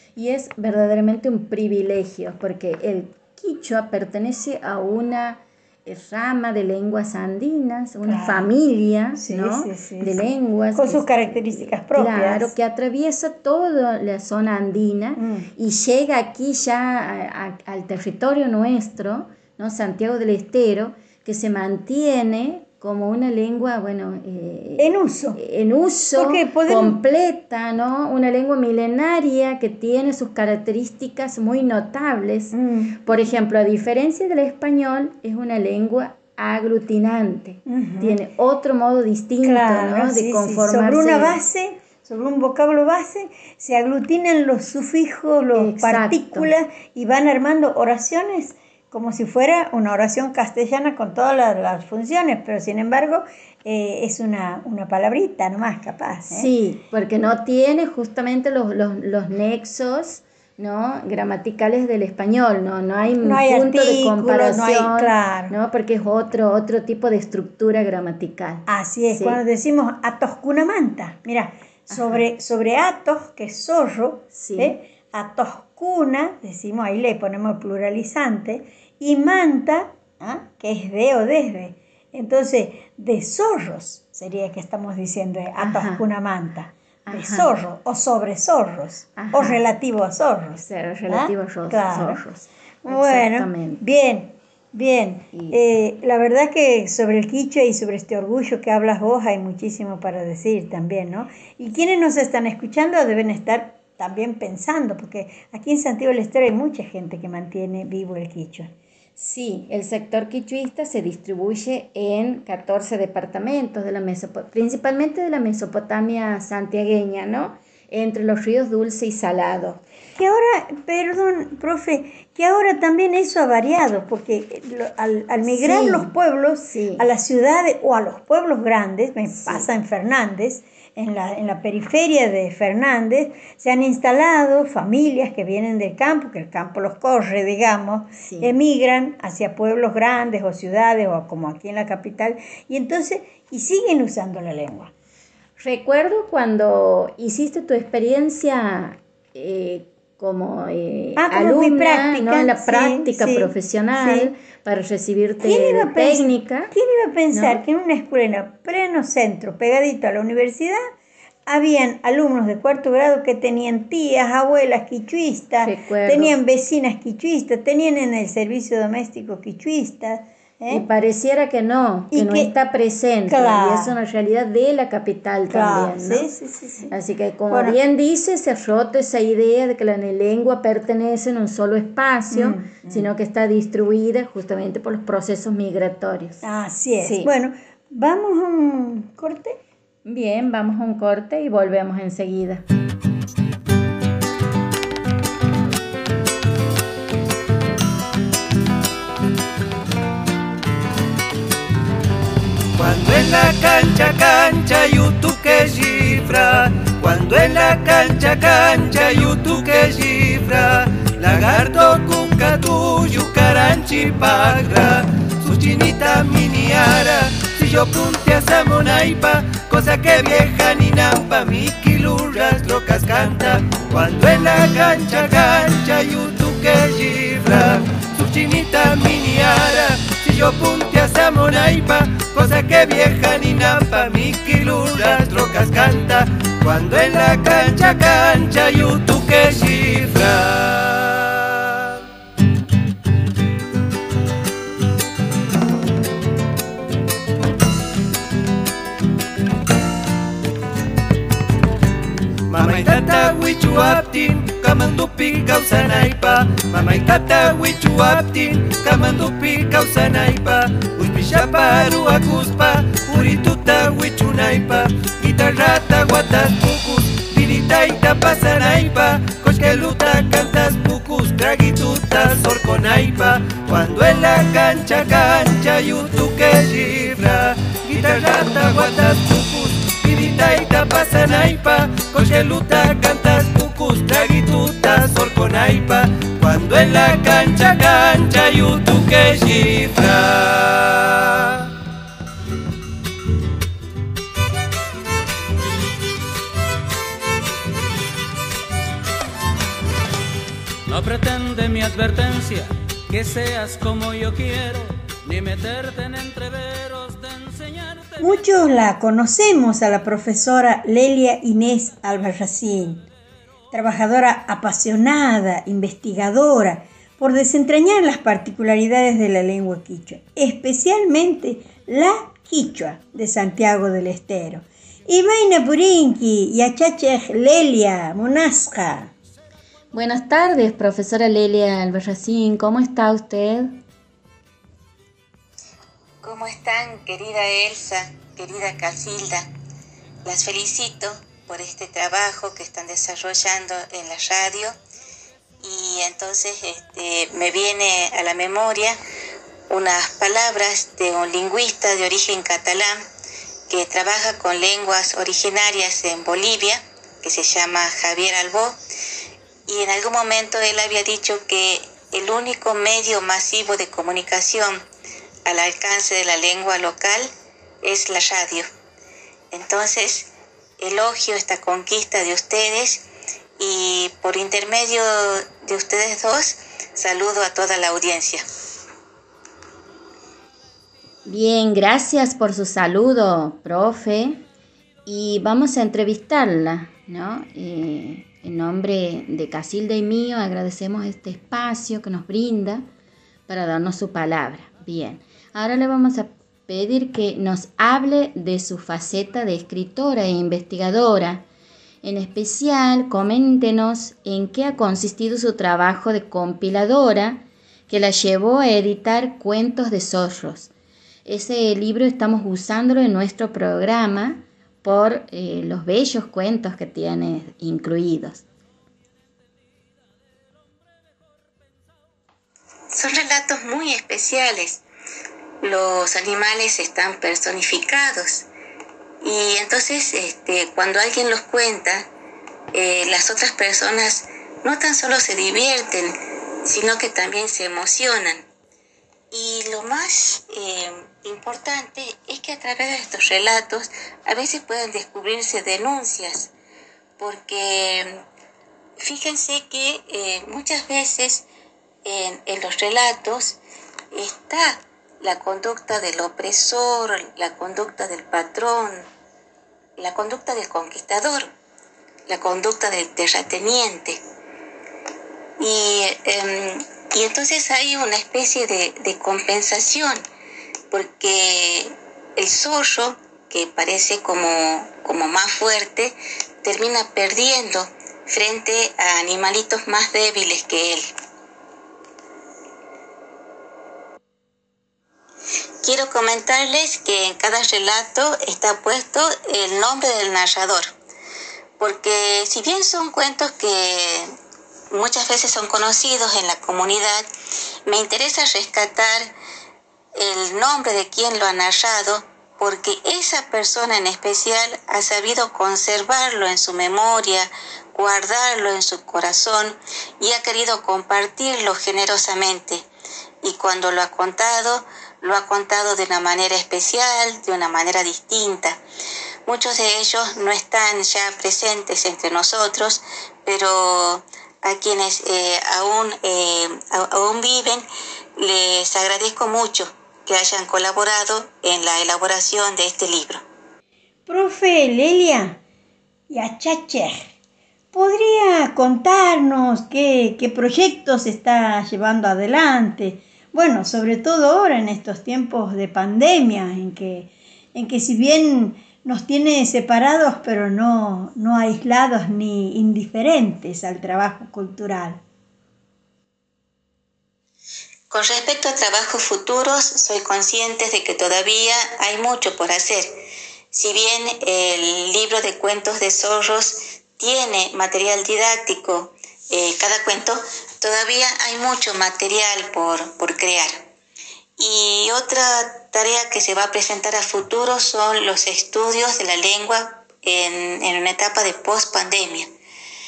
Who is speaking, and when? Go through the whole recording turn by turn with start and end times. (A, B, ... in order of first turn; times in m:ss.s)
0:00.2-0:41.4 A
0:08.1-0:08.5 B
0:09.2-0:10.2 B
0:10.8-0:12.5 B
0:15.2-0:15.5 B
0:24.8-0:25.4 B
0:26.1-0:27.0 B
0:32.5-0:33.2 B
0:37.7-0:38.2 B
0:39.4-0:56.5 B
0:45.5-0:46.5 A
0:56.3-1:09.4 A
1:03.2-1:05.6 B
1:08.7-1:32.2 B
1:11.9-1:12.2 A
1:14.3-1:14.8 A
1:25.6-1:26.0 A
1:27.1-1:27.5 A
1:29.2-1:29.6 A
1:30.6-1:33.8 A
1:32.8-1:48.7 B
1:49.2-1:59.8 A
2:00.2-2:24.9 B
2:05.5-2:06.1 A
2:06.7-2:07.1 A
2:09.3-2:09.7 A
2:18.2-2:18.5 A
2:25.6-2:36.7 A
2:31.2-2:34.3 B
2:35.4-2:40.8 B
2:37.3-2:37.6 A
2:41.5-2:50.9 B
2:45.6-2:46.4 A
2:50.7-2:56.3 A
2:52.1-2:52.5 B
2:53.3-2:54.0 B
2:55.5-2:56.9 B
2:56.9-3:06.4 A
2:57.5-2:57.8 B
3:02.3-3:03.1 B
3:06.4-3:09.6 B
3:07.0-3:07.3 A
3:10.0-3:12.6 A
3:22.8-4:01.4 C
4:12.5-4:51.6 C
5:00.9-5:08.4 D
5:08.2-5:13.1 B
5:13.7-5:29.1 B
5:29.9-5:33.7 A
5:36.2-5:39.5 E
5:40.2-5:44.7 E
5:45.6-5:49.0 E
5:49.7-5:53.0 E
5:53.7-5:58.8 E
5:59.7-6:04.8 E
6:05.5-6:07.3 E
6:07.8-6:08.7 E
6:09.5-6:13.0 E
6:13.6-6:18.4 E
6:21.3-6:24.4 A
6:25.1-6:32.9 A
6:33.5-6:41.4 A
6:42.0-6:50.7 A
6:51.3-6:58.4 A
7:02.9-7:04.8 E
7:05.6-7:08.5 E
7:09.2-7:12.1 E
7:12.7-7:18.4 E
7:19.3-7:26.5 E
7:27.2-7:28.2 E
7:29.0-7:31.5 E
7:32.0-7:33.6 E
7:34.1-7:39.1 E
7:40.0-7:41.5 E
7:42.3-7:44.2 E
7:45.6-7:50.2 E
7:50.9-8:01.1 E
8:05.8-8:10.9 E
8:11.8-8:14.3 E
8:14.9-8:17.3 E
8:17.9-8:19.3 E
8:20.2-8:32.8 E
8:33.4-8:38.8 E
8:39.5-8:47.8 E
8:48.4-8:53.4 E
8:54.3-8:55.6 B
8:56.3-8:57.3 B
8:57.9-9:15.2 B
9:18.1-9:23.2 E
9:23.7-9:33.8 E
9:34.6-9:42.5 E